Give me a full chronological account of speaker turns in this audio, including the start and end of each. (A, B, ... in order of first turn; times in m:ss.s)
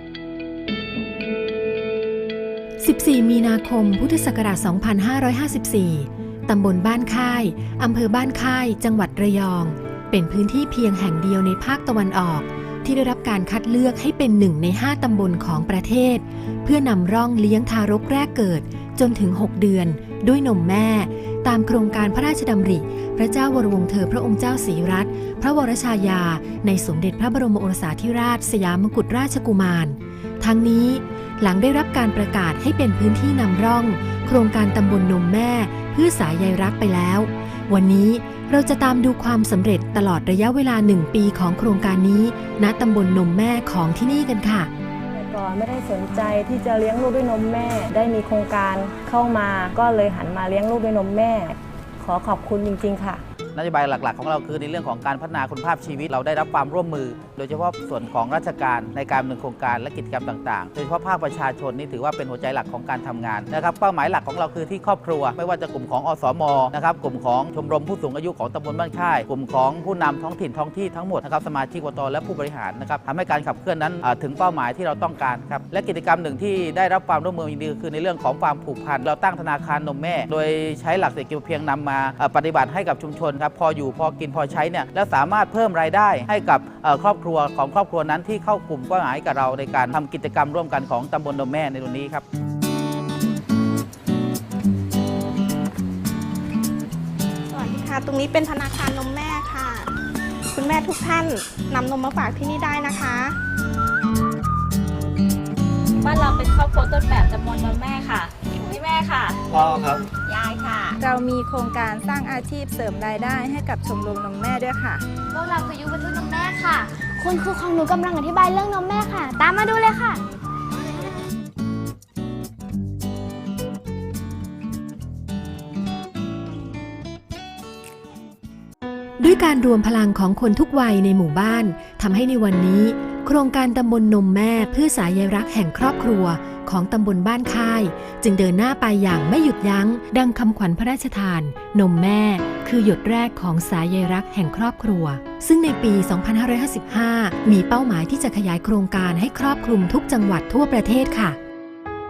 0:02.8-0:44.7 A
0:45.1-0:53.2 B
0:53.6-1:32.2 C
1:37.5-1:39.9 D
1:40.5-1:43.4 D
1:46.0-1:49.4 E
1:50.3-1:51.0 D
1:51.0-1:55.0 F
1:55.3-2:00.2 G
2:09.2-2:31.4 A